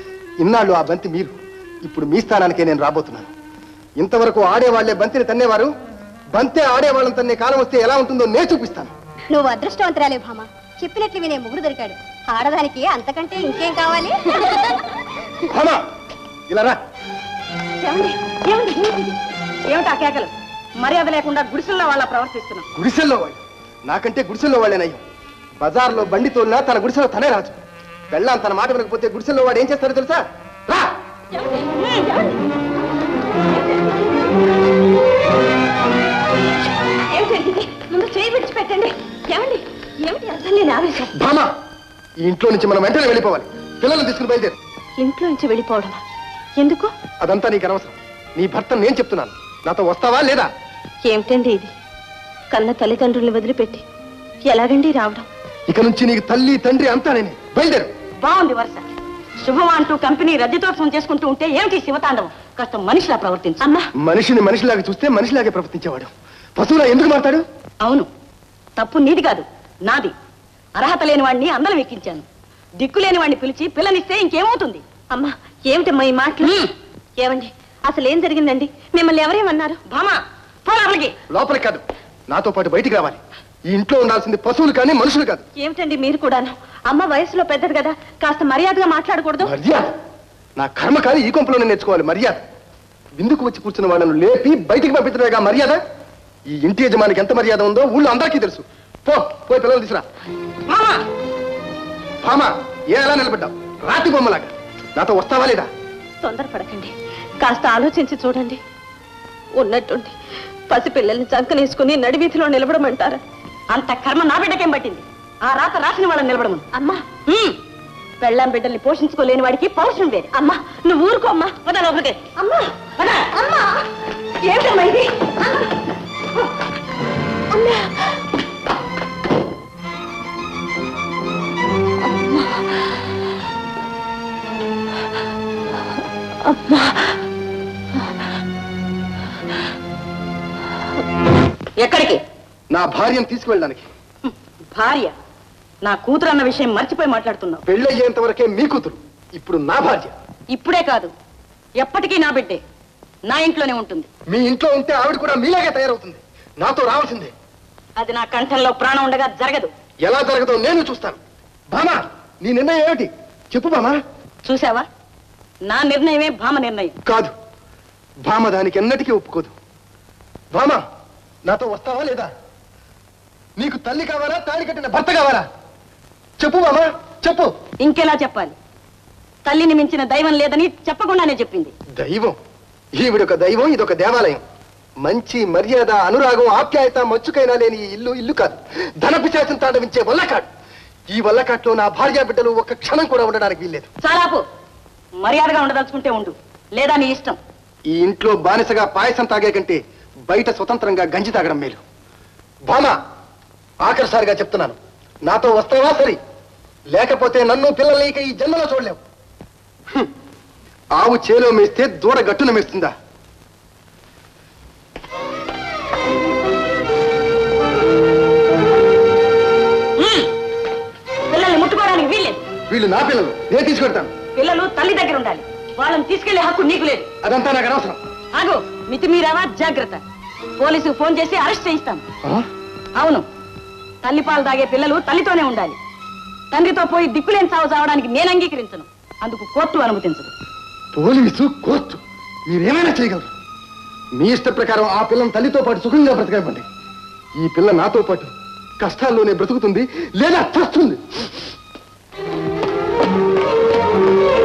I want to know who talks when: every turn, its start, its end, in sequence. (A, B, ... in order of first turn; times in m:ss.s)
0:00.4-0:03.3 A
0:04.0-0:05.7 A
0:06.3-0:08.9 A
0:15.5-0:15.8 A
0:16.5-0:16.8 A
0:17.8-0:19.1 B
0:19.7-0:22.7 B
0:22.8-0:25.0 A
0:25.6-0:27.6 A
0:28.1-0:30.2 A
0:31.4-0:32.2 B
0:37.1-0:41.1 C
0:41.2-0:41.5 A
0:42.2-0:44.6 A
0:45.0-0:46.0 C
0:46.6-0:46.9 C
0:47.2-0:50.5 A
0:51.0-0:51.7 C
0:52.5-0:53.8 C
0:54.4-0:55.3 C
0:55.7-0:57.9 A
0:58.2-0:58.9 B
0:59.4-1:03.7 B
1:04.0-1:07.4 A
1:07.8-1:08.1 B
1:08.8-1:10.1 B
1:10.8-1:12.2 B
1:12.8-1:14.8 B
1:15.1-1:16.6 C
1:16.4-1:16.7 B
1:17.2-1:19.8 C
1:19.9-1:21.2 B
1:21.3-1:25.4 A
1:25.6-1:29.5 C
1:29.4-1:29.9 A
1:30.6-1:32.4 A
1:33.2-1:35.8 A
1:36.5-1:40.0 A
1:40.7-1:41.0 B
1:42.2-1:45.7 A
1:46.2-1:48.6 C
1:49.6-1:50.1 C
1:50.7-1:53.2 C
1:53.7-1:56.7 B
1:56.7-1:57.0 C
1:57.2-1:57.6 B
1:58.2-2:00.4 B
2:00.4-2:03.8 C
2:03.0-2:03.3 B
2:04.5-2:05.0 C
2:07.6-2:07.9 C
2:21.8-2:22.2 B
2:22.7-2:23.9 A
2:24.2-2:25.1 B
2:25.8-2:27.6 B
2:27.7-2:30.1 A
2:30.5-2:31.1 B
2:31.8-2:32.6 B
2:33.3-2:34.1 B
2:34.3-2:37.3 A
2:38.0-2:39.7 B
2:40.0-2:41.2 A
2:41.7-2:44.0 A
2:44.4-2:44.9 B
2:45.7-2:47.0 B
2:47.1-2:47.3 A
2:48.2-2:49.5 A
2:50.5-2:50.8 A
2:51.4-2:52.3 A
2:53.6-2:55.5 A
2:56.4-2:57.5 A
2:57.8-2:58.6 B
2:59.4-3:01.7 B
3:02.0-3:02.4 A
3:03.0-3:04.4 A
3:05.0-3:10.5 A
3:11.1-3:13.9 A
3:14.0-3:14.4 B
3:15.2-3:17.4 B
3:17.9-3:21.8 A
3:22.7-3:23.0 A
3:23.8-3:26.2 A
3:26.9-3:29.0 A
3:31.0-3:32.9 A
3:40.0-3:40.3 B
3:41.3-3:42.4 B
3:42.7-3:44.1 A
3:44.4-3:47.1 B
3:47.2-3:48.0 A
3:48.3-3:50.0 B
3:50.6-3:52.0 B
3:53.0-3:53.2 B
3:54.0-3:55.8 B
3:56.5-4:00.3 B
4:00.9-4:03.3 A
4:04.2-4:06.7 A
4:07.4-4:11.2 A